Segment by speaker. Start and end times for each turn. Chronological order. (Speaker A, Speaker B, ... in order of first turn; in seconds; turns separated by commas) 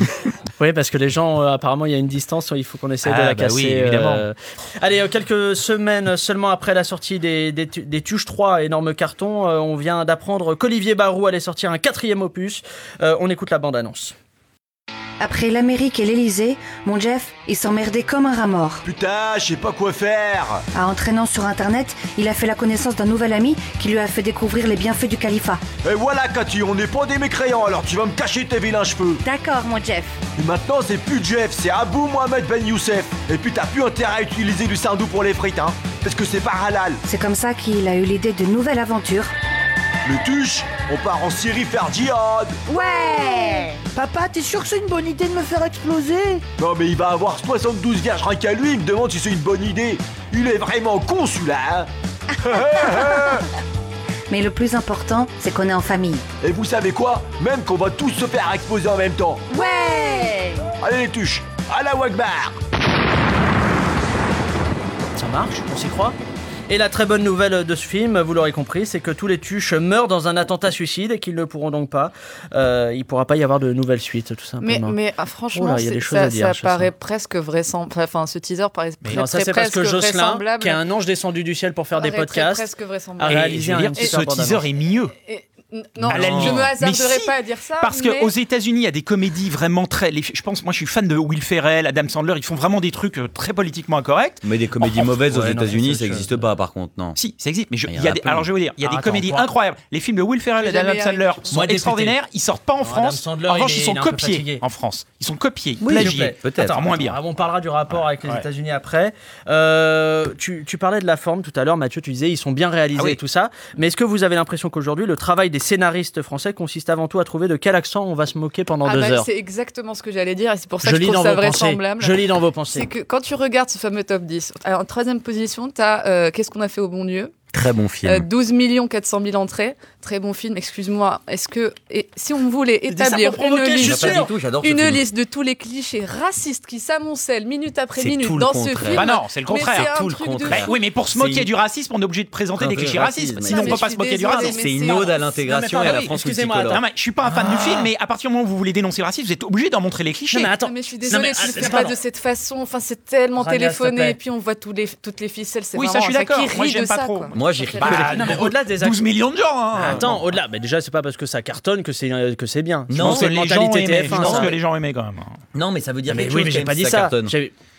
Speaker A: 0.6-14.1, Speaker B: 3.0-4.2, Speaker C: 15.2-18.8, Speaker D: 18.8-20.6, Speaker C: 20.7-25.6, Speaker D: 25.8-29.2, Speaker C: 29.2-30.2, Speaker D: 30.4-37.0, Speaker C: 37.0-39.3, Speaker D: 40.0-42.6, Speaker C: 42.7-43.9, Speaker E: 43.9-46.4, Speaker D: 46.6-51.9, Speaker D: 52.4-53.5, Speaker C: 52.6-53.4, Speaker C: 54.3-56.2, Speaker D: 56.4-59.4, Speaker C: 59.5-60.6, Speaker D: 60.8-62.6, Speaker A: 65.2-66.2, Speaker A: 66.7-75.0, Speaker F: 74.6-80.8, Speaker A: 75.5-76.9, Speaker A: 79.1-84.7, Speaker F: 82.0-84.2, Speaker B: 83.3-85.1, Speaker F: 85.2-88.3, Speaker G: 86.1-86.6, Speaker B: 86.1-94.4, Speaker G: 94.4-97.2, Speaker A: 94.9-96.3, Speaker B: 97.2-107.2, Speaker G: 97.9-98.5, Speaker A: 98.8-99.5, Speaker F: 100.6-101.5, Speaker A: 101.5-102.2, Speaker A: 102.8-104.6, Speaker G: 105.8-106.9, Speaker A: 105.9-119.3, Speaker F: 118.8-122.2, Speaker A: 120.8-122.9, Speaker F: 122.7-127.3, Speaker G: 127.5-128.3, Speaker F: 128.0-140.7, Speaker A: 132.9-134.3, Speaker G: 133.8-135.0, Speaker G: 137.9-141.5, Speaker B: 138.9-139.9, Speaker B: 140.4-145.1, Speaker G: 142.6-146.8, Speaker F: 143.4-145.2, Speaker A: 145.4-146.8, Speaker B: 145.8-146.1, Speaker B: 146.7-150.5, Speaker A: 147.3-147.8, Speaker A: 150.3-152.0, Speaker F: 150.6-158.1, Speaker A: 153.4-154.2, Speaker B: 155.7-160.2, Speaker G: 157.3-158.5, Speaker A: 157.8-159.0, Speaker A: 159.7-164.6, Speaker G: 162.9-164.5, Speaker B: 162.9-165.4, Speaker G: 165.5-167.3, Speaker A: 166.1-167.5